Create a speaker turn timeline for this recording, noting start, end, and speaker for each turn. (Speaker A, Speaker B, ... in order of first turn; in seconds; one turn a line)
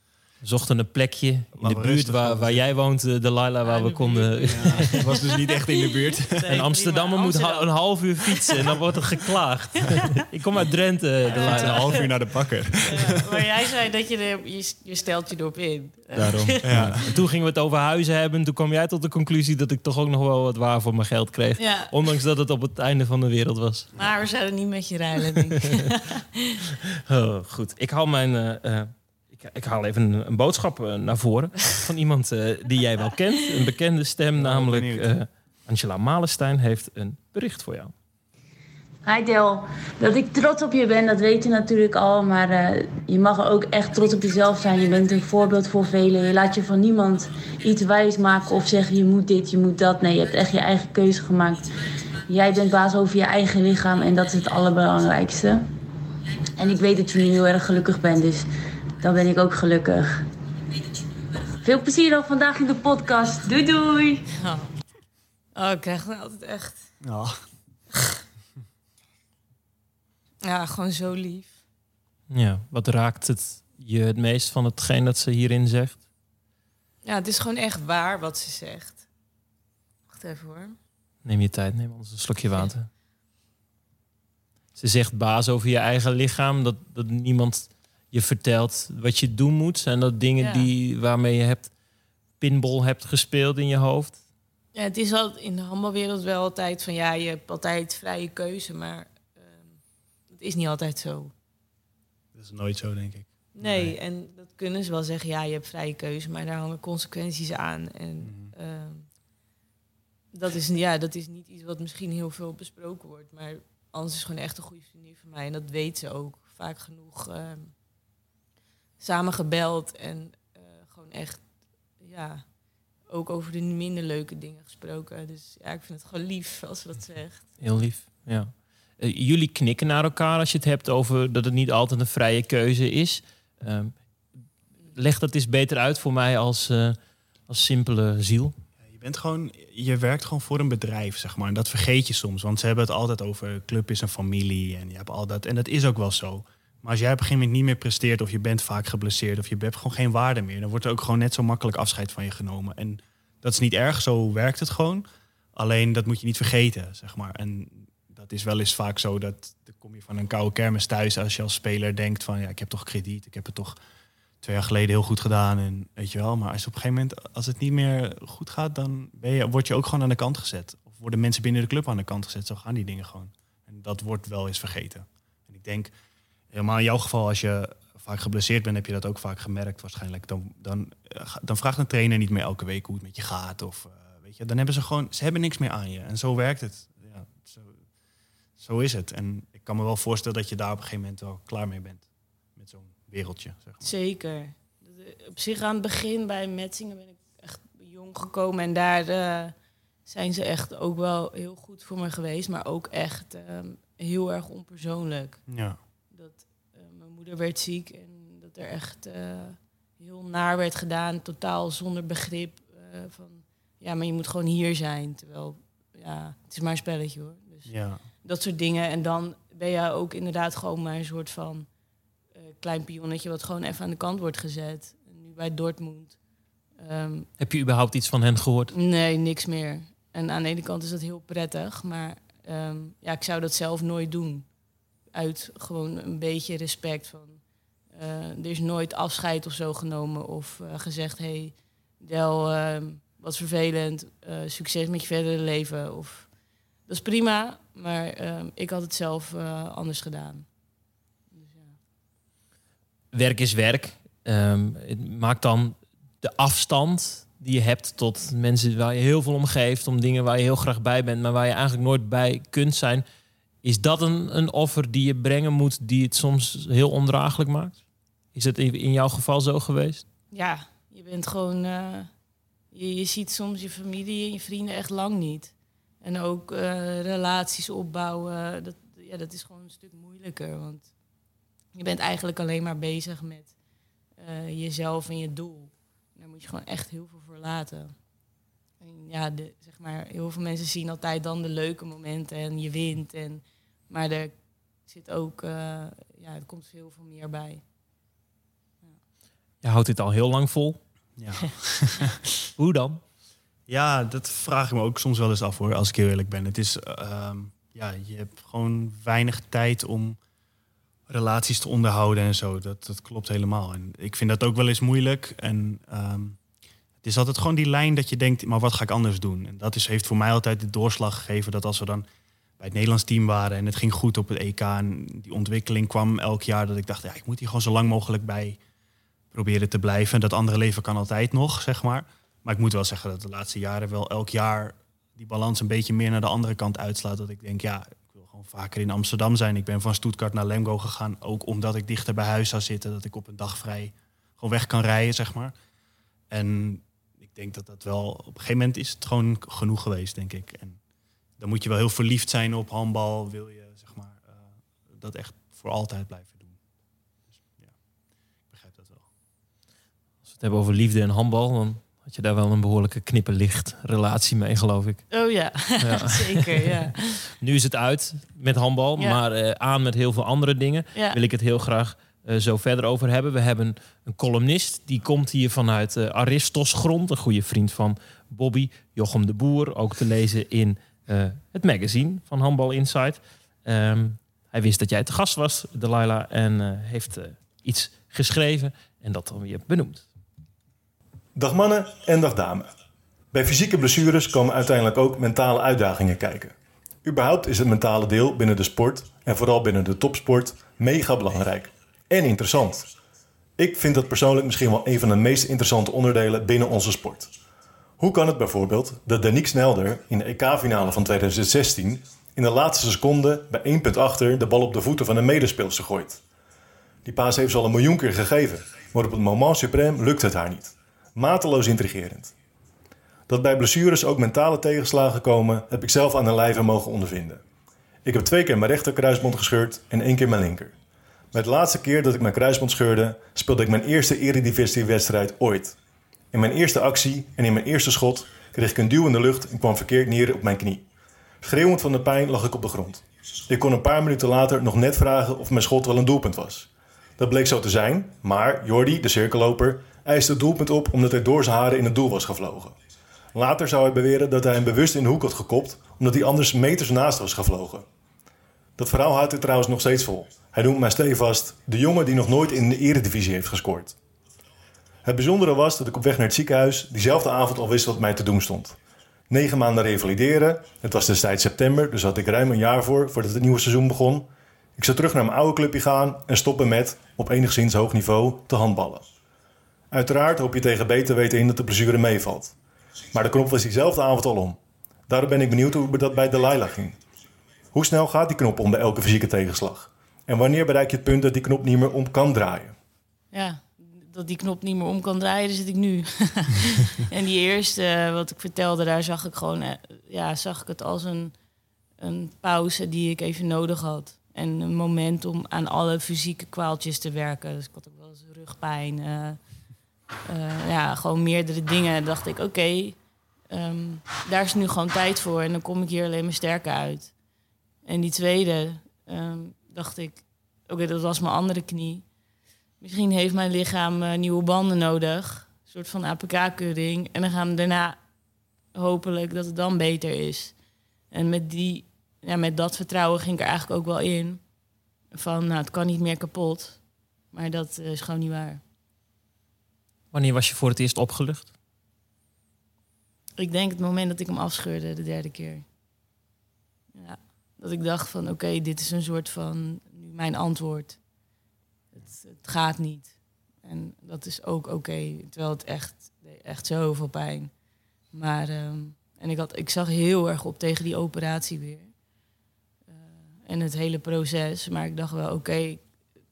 Speaker A: 0.4-5.2
Speaker B: 1.5-2.6
Speaker C: 3.6-8.8
Speaker B: 4.5-6.6
Speaker A: 6.5-12.0
Speaker C: 11.3-12.1
Speaker B: 11.3-13.5
Speaker C: 12.8-17.1
Speaker A: 16.1-23.9
Speaker B: 16.6-17.0
Speaker C: 21.6-21.9
Speaker C: 23.9-26.6
Speaker A: 27.1-37.9
Speaker B: 34.3-35.1
Speaker D: 39.0-51.7
Speaker D: 52.3-55.7
Speaker D: 56.6-58.5
Speaker D: 59.0-60.2
Speaker D: 61.6-64.3
Speaker C: 64.4-64.7
Speaker C: 65.5-66.9
Speaker B: 67.0-67.4
Speaker C: 67.9-68.2
Speaker C: 70.4-71.6
Speaker A: 72.3-76.0
Speaker C: 77.0-79.0
Speaker C: 80.1-80.8
Speaker A: 81.2-82.9
Speaker A: 84.8-91.7
Speaker C: 90.4-90.7
Speaker A: 92.4-94.2
Speaker C: 94.7-101.3
Speaker B: 102.3-104.0
Speaker C: 103.5-109.1
Speaker B: 108.2-108.5
Speaker C: 110.3-117.7
Speaker C: 119.0-121.5
Speaker C: 122.0-122.5
Speaker C: 123.1-127.5
Speaker A: 127.6-134.1
Speaker A: 134.9-137.0
Speaker A: 137.5-138.6
Speaker B: 138.8-163.8
Speaker B: 164.4-175.9
Speaker B: 176.5-187.8
Speaker B: 188.6-193.9
Speaker C: 193.8-199.5
Speaker C: 200.1-205.4
Speaker B: 205.5-205.8
Speaker C: 206.1-221.7
Speaker B: 217.7-218.0
Speaker C: 222.3-226.2
Speaker C: 226.8-227.3
Speaker A: 227.4-228.7
Speaker C: 228.7-234.5
Speaker C: 235.1-237.4
Speaker C: 237.9-246.3
Speaker C: 246.9-250.5
Speaker C: 251.3-251.8
Speaker A: 253.1-263.0
Speaker A: 263.6-267.8
Speaker A: 268.3-270.1
Speaker C: 270.3-272.1
Speaker C: 272.7-280.9
Speaker C: 281.7-283.5
Speaker C: 284.2-287.9
Speaker C: 288.8-297.6
Speaker A: 299.6-300.8
Speaker B: 301.2-302.3
Speaker A: 302.6-303.0
Speaker B: 303.7-310.2
Speaker B: 311.1-316.4
Speaker B: 317.0-322.1
Speaker B: 322.6-328.6
Speaker B: 329.3-345.5
Speaker B: 346.3-350.8
Speaker B: 351.4-356.6
Speaker B: 357.3-357.8
Speaker B: 358.5-359.1
Speaker A: 360.3-365.1
Speaker C: 365.1-367.3
Speaker A: 365.8-390.1
Speaker E: 391.4-392.7
Speaker E: 393.3-402.9
Speaker E: 403.6-407.3
Speaker E: 408.0-416.2
Speaker E: 417.0-422.3
Speaker E: 423.3-427.4
Speaker E: 428.0-430.7
Speaker E: 431.3-435.8
Speaker E: 436.3-440.8
Speaker E: 441.4-452.7
Speaker E: 453.3-457.9
Speaker E: 458.8-463.9
Speaker E: 465.0-468.8
Speaker E: 469.3-479.1
Speaker E: 479.9-482.5
Speaker E: 483.1-484.6
Speaker E: 485.1-487.0
Speaker E: 487.7-492.7
Speaker C: 493.3-501.3
Speaker C: 502.0-509.4
Speaker C: 510.2-513.0
Speaker C: 513.5-517.1
Speaker C: 517.8-522.0
Speaker C: 522.8-528.0
Speaker C: 528.7-530.5
Speaker C: 531.1-534.4
Speaker C: 535.1-536.8
Speaker C: 537.3-538.6
Speaker A: 540.1-541.5
Speaker C: 543.4-545.6
Speaker C: 546.9-551.0
Speaker C: 551.9-557.5
Speaker C: 558.1-561.9
Speaker C: 562.9-565.9